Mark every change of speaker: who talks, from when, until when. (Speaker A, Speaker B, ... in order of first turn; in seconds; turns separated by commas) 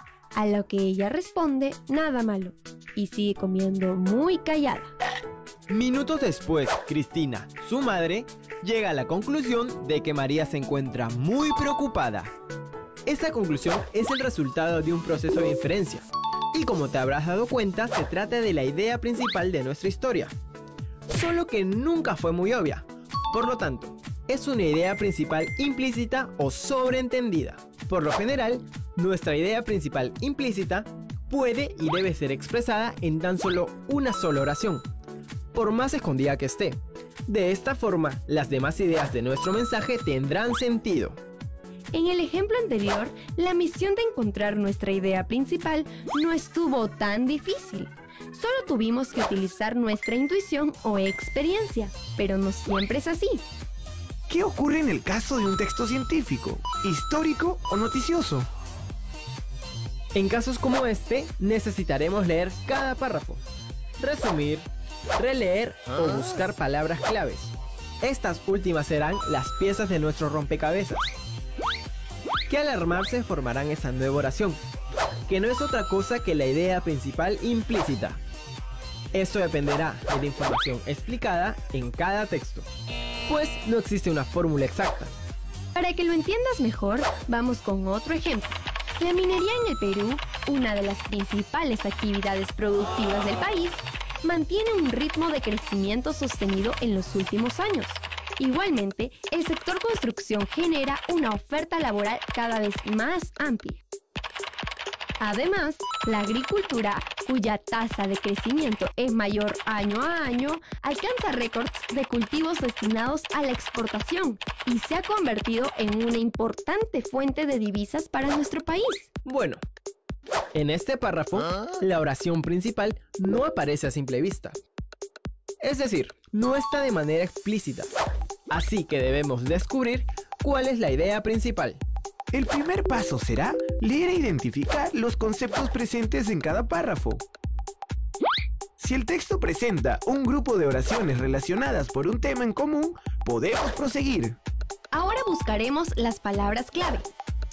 Speaker A: 0.3-4.9, Speaker B: 5.7-12.3, Speaker B: 13.1-20.4, Speaker B: 21.1-34.9, Speaker B: 35.5-41.2, Speaker A: 41.9-53.5, Speaker C: 54.3-58.5, Speaker B: 60.1-63.4, Speaker B: 64.0-71.1, Speaker B: 72.5-74.6, Speaker B: 75.3-78.2, Speaker B: 79.1-82.7, Speaker B: 83.3-85.1, Speaker A: 85.8-103.8, Speaker A: 105.2-119.1, Speaker B: 119.2-119.6, Speaker B: 120.5-124.6, Speaker B: 125.6-128.0, Speaker B: 128.5-131.8, Speaker C: 132.3-137.2, Speaker C: 138.8-144.4, Speaker A: 144.9-147.1